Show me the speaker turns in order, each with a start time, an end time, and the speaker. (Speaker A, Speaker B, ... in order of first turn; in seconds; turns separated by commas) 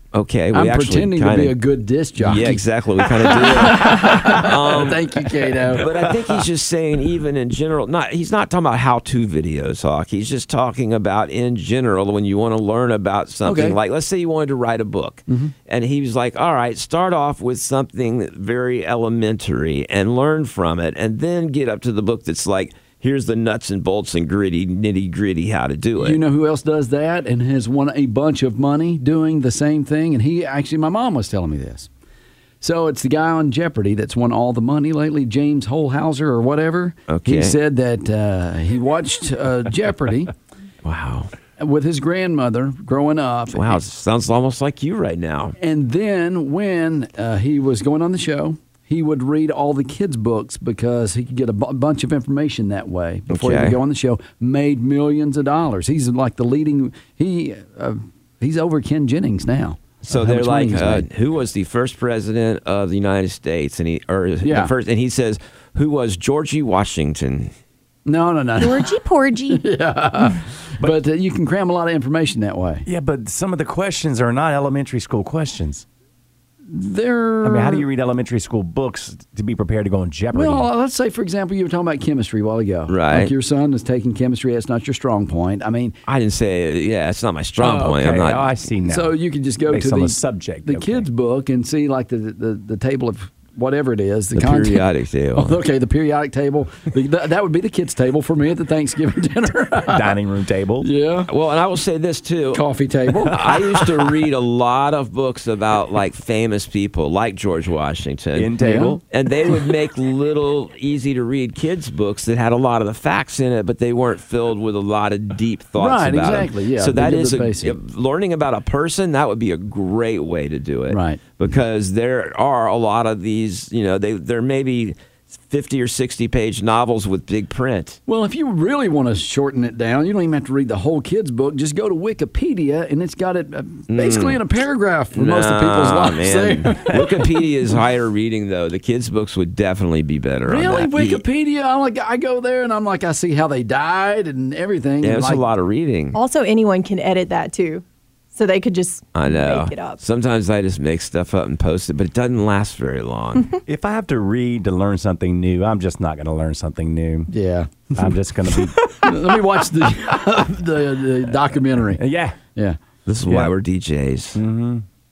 Speaker A: 0.1-1.6, Speaker B: 0.5-6.4, Speaker A: 2.2-26.2, Speaker B: 13.4-13.8, Speaker B: 15.3-15.5, Speaker B: 26.0-31.9, Speaker B: 32.6-40.3, Speaker A: 37.1-37.5, Speaker A: 40.8-41.3, Speaker B: 41.6-43.8, Speaker A: 43.5-45.5, Speaker B: 45.6-61.1, Speaker A: 53.3-53.8, Speaker A: 60.1-67.5, Speaker B: 64.4-64.7, Speaker B: 68.0-68.9, Speaker C: 68.6-69.7, Speaker B: 69.5-72.8, Speaker D: 72.8-75.8, Speaker B: 76.7-77.8, Speaker D: 77.4-80.7, Speaker B: 80.3-85.9, Speaker A: 82.9-83.3, Speaker A: 86.1-88.5, Speaker D: 87.6-89.2, Speaker B: 88.8-100.2, Speaker D: 89.7-91.0, Speaker A: 94.3-95.6, Speaker D: 99.9-100.9, Speaker B: 100.8-101.3, Speaker A: 101.3-102.6, Speaker B: 102.5-103.4, Speaker A: 103.2-128.0, Speaker D: 108.3-109.0, Speaker B: 108.6-109.0, Speaker B: 115.8-117.8, Speaker B: 120.9-121.2, Speaker B: 128.1-137.2, Speaker A: 133.9-134.4, Speaker A: 135.1-141.2, Speaker B: 140.4-145.4, Speaker A: 145.0-146.2, Speaker C: 146.1-150.0, Speaker A: 149.1-153.6, Speaker D: 153.7-157.3, Speaker B: 157.3-162.0, Speaker D: 157.9-158.9, Speaker D: 161.9-162.4, Speaker A: 163.1-164.4, Speaker D: 163.2-163.5, Speaker D: 164.3-164.8